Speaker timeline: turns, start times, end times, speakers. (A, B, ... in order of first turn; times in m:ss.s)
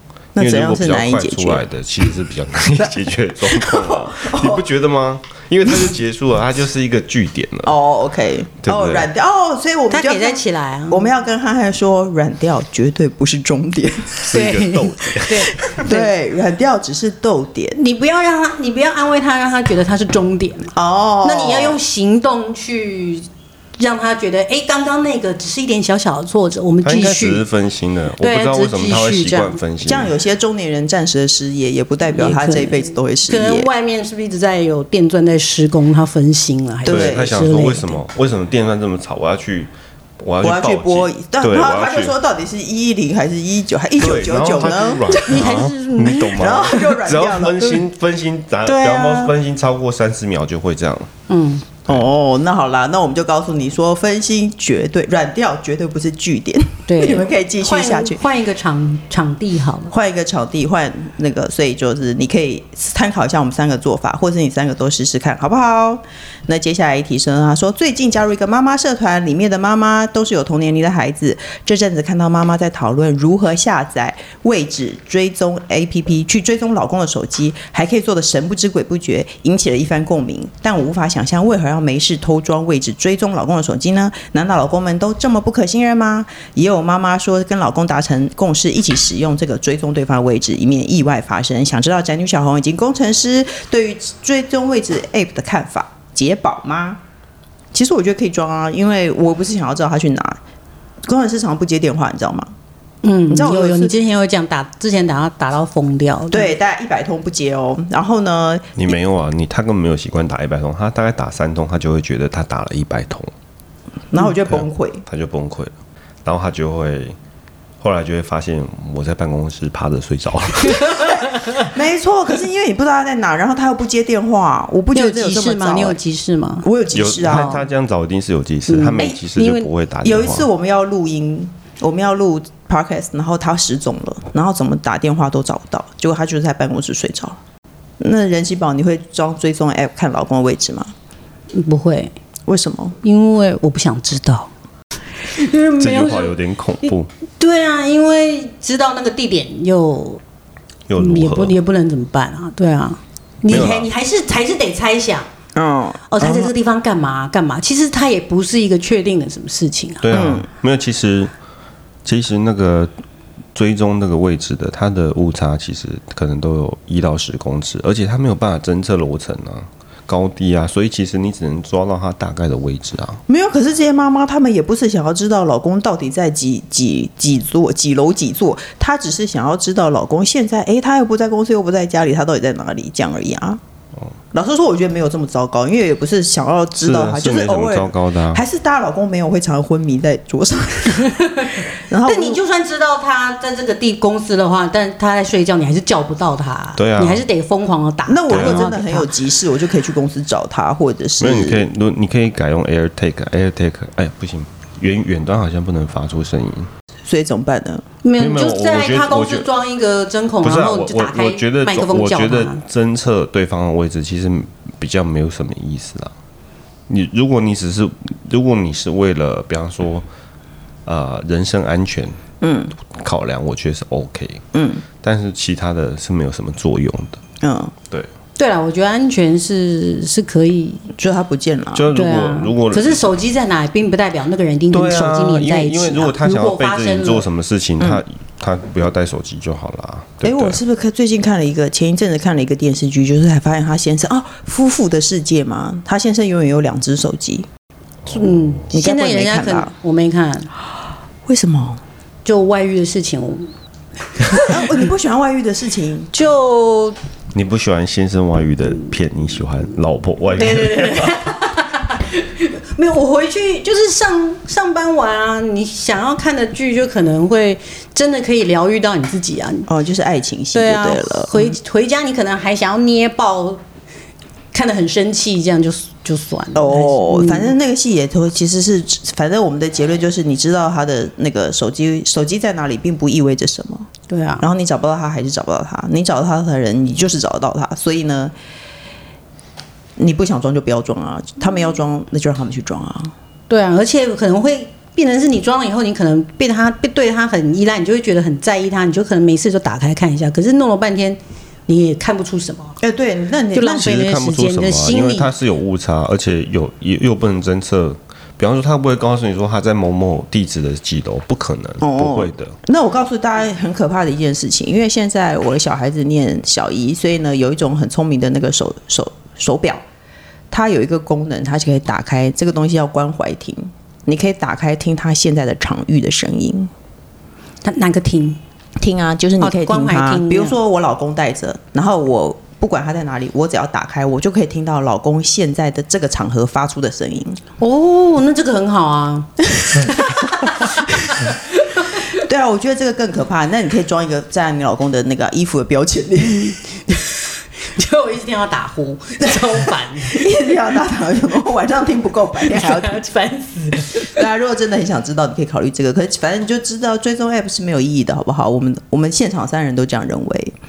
0:00.4-0:01.6 A
0:00.4-0:07.7 B
0:03.4-0:04.6 A
0:07.6-0:14.4 A
0:08.6-0:09.1 B
0:09.9-0:11.1 C
0:14.2-0:15.5 B
0:14.3-0:16.1 C
0:15.7-0:17.8 A
0:17.7-0:27.4 C
0:20.8-0:21.8 A
0:26.8-0:30.1 B
0:28.2-0:29.6 C
0:29.8-0:33.7 A
0:32.1-0:38.0 C
0:36.8-0:37.7 A
0:36.9-0:42.1 B
0:40.4-0:45.5 A
0:44.0-0:51.1 B
0:44.7-0:47.0 C
0:46.3-0:47.7 A
0:48.6-0:49.3 C
0:51.3-0:51.6 C
0:51.9-0:58.2 A
0:56.9-0:59.9 C
0:59.9-1:37.0 A
1:37.7-1:40.4 A
1:41.0-1:42.5 A
1:43.0-1:46.6 C
1:43.3-1:43.9 A
1:46.3-1:49.0 A
1:48.8-1:53.3 B
1:54.1-1:55.0 A
1:54.4-1:55.7 B
1:56.2-1:57.1 B
1:57.8-2:01.1 B
2:00.9-2:01.6 C
2:01.5-2:06.0 A
2:04.9-2:06.7 C
2:06.6-2:07.5 A
2:06.9-2:10.5 B
2:07.2-2:07.6 C
2:08.7-2:09.7 C
2:10.0-2:17.4 A
2:18.0-2:20.9 A
2:21.5-2:22.1 C
2:22.5-2:23.0 A
2:23.0-2:24.5 C
2:25.2-2:26.4 C
2:25.8-2:27.1 B
2:27.4-2:30.2 C
2:30.9-2:31.6 B
2:31.0-2:35.3 C
2:33.5-2:33.9 B
2:35.5-2:36.1 A
2:36.1-2:40.0 C
2:40.0-2:41.3 B
2:40.1-2:40.5 A
2:42.0-2:42.9 B
2:43.5-2:53.2 B
2:53.3-3:03.6 A
3:04.3-3:11.2 A
3:06.8-3:08.4 B
3:11.1-3:19.1 C
3:11.9-3:12.4 A
3:16.8-3:17.2 B
3:18.1-3:21.6 A
3:18.3-3:18.6 B
3:21.2-3:26.7 B
3:27.0-3:27.8 A
3:28.0-3:32.6 C
3:28.2-3:29.5 B
3:30.4-3:36.1 B
3:36.9-3:40.0 B
3:40.8-3:42.2 B
3:42.4-3:42.8 A
3:42.8-3:44.4 B
3:44.5-3:44.8 A
3:45.0-3:47.2 B
3:47.4-3:47.7 A
3:48.4-3:50.9 C
3:51.0-3:51.9 A
3:51.7-3:53.1 B
3:51.9-3:57.2 C
3:54.7-4:00.6 B
4:00.2-4:07.5 A
4:08.0-4:08.6 B
4:08.0-4:10.5 C
4:08.7-4:09.7 A
4:11.2-4:11.8 A
4:12.2-4:13.5 C
4:14.2-4:14.8 C
4:14.5-4:16.1 A
4:16.1-4:17.0 C
4:17.3-4:21.1 B
4:20.4-4:29.7 C
4:29.7-4:31.5 A
4:30.5-4:33.6 C
4:34.5-4:37.5 C
4:36.5-4:43.9 A
4:44.1-4:44.4 C
4:44.4-4:48.3 A
4:50.0-4:53.1 A
4:53.5-5:02.8 C
5:02.8-5:03.9 A
5:03.5-5:05.3 C
5:03.8-5:12.5 B
5:11.8-5:19.8 A
5:20.5-5:26.7 A
5:27.6-5:28.4 C
5:28.8-5:37.4 A
5:29.4-5:30.6 C
5:37.6-5:42.1 C
5:39.7-5:40.0 A
5:42.1-5:46.6 A
5:46.9-5:50.3 C
5:50.1-5:53.1 A
5:52.4-5:54.2 C
5:53.9-6:00.5 A